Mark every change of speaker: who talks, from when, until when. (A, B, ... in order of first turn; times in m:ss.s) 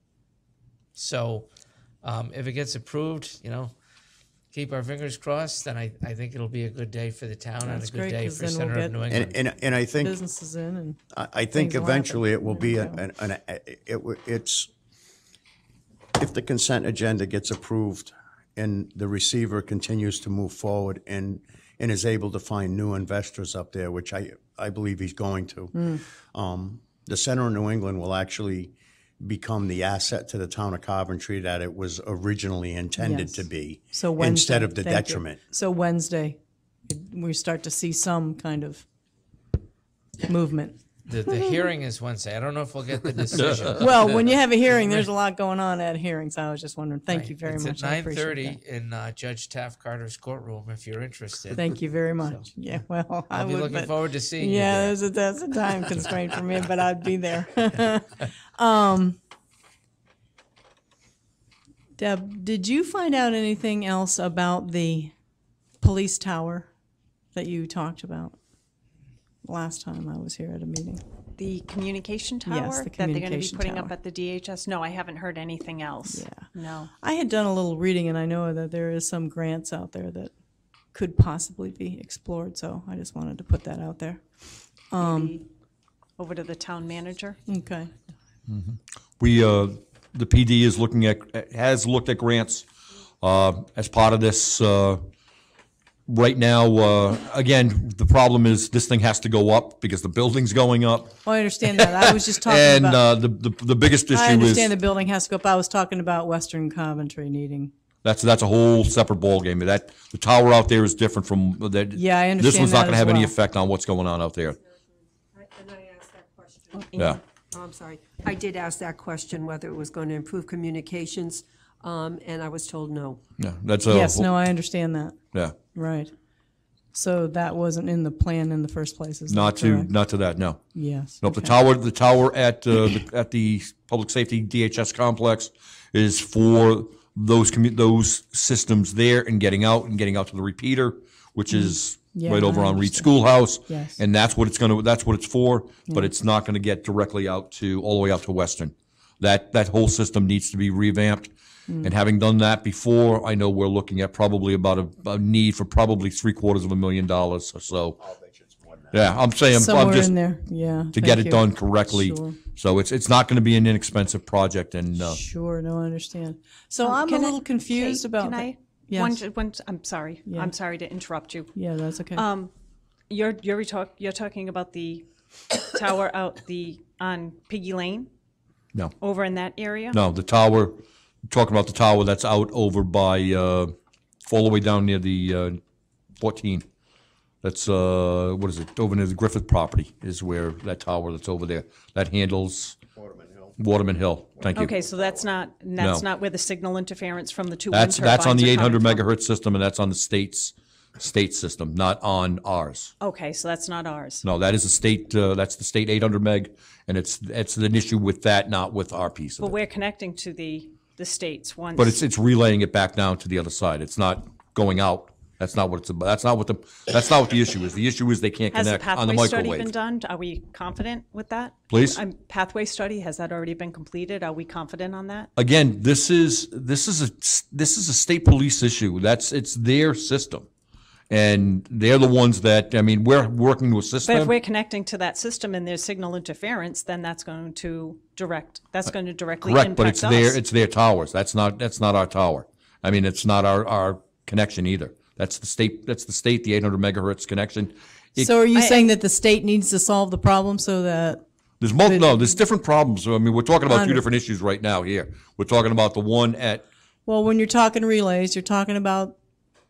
0:00.9-0:01.5 A
0:02.0-0:03.7 A
0:04.5-0:09.4 A
0:07.6-0:09.0 B
0:09.1-0:10.2 C
0:09.9-0:11.0 B
0:11.1-0:14.7 C
0:11.5-0:13.0 B
0:16.2-0:25.7 C
0:25.7-0:26.0 B
0:26.3-0:35.4 C
0:33.0-0:38.8 B
0:40.2-0:40.8 B
0:41.1-0:44.2 A
0:43.7-0:48.6 B
0:47.1-0:51.7 A
0:51.5-0:59.2 B
0:53.3-0:55.0 A
1:02.0-1:05.1 B
1:05.8-1:06.7 B
1:07.3-1:08.4 B
1:09.4-1:11.0 B
1:11.4-1:16.9 D
1:12.4-1:13.9 B
1:16.1-1:16.4 B
1:17.0-1:20.3 B
1:20.9-1:24.2 B
1:24.9-1:25.4 B
1:25.0-1:25.4 D
1:26.2-1:27.4 D
1:27.5-1:27.9 B
1:28.5-1:32.7 E
1:33.2-1:35.0 E
1:36.1-1:44.7 E
1:41.2-1:43.0 B
1:44.1-1:47.7 B
1:48.0-1:54.6 E
1:51.9-1:53.3 B
1:55.4-1:56.8 F
1:57.6-2:03.1 F
2:03.4-2:04.3 E
2:03.9-2:05.2 B
2:05.7-2:06.1 B
2:06.9-2:09.9 B
2:09.3-2:10.6 E
2:10.7-2:11.5 B
2:11.2-2:31.3 E
2:21.5-2:23.1 B
2:23.7-2:24.0 B
2:31.8-2:38.0 E
2:38.0-2:39.0 C
2:38.9-2:40.1 E
2:39.5-2:42.4 B
2:40.9-2:45.2 E
2:45.0-2:49.2 B
2:46.8-2:51.5 D
2:50.3-2:50.5 B
2:51.5-2:52.2 B
2:52.1-2:52.5 D
2:53.1-2:58.1 D
2:59.0-3:00.0 D
2:59.9-3:03.7 E
3:04.2-3:05.6 E
3:06.2-3:06.6 E
3:07.4-3:12.8 E
3:13.0-3:13.5 C
3:13.6-3:14.7 E
3:14.5-3:19.0 D
3:15.8-3:16.0 E
3:17.7-3:22.9 E
3:23.0-3:24.2 D
3:24.2-3:29.5 E
3:29.4-3:32.0 D
3:31.8-3:39.7 E
3:38.5-3:45.3 D
3:41.7-3:42.0 E
3:45.4-3:50.4 E
3:51.1-3:54.3 E
3:54.0-4:00.4 D
3:59.4-4:08.3 E
4:08.2-4:11.2 B
4:08.5-4:08.8 D
4:11.6-4:16.6 E
4:11.8-4:12.2 B
4:13.7-4:14.0 B
4:17.0-4:19.2 B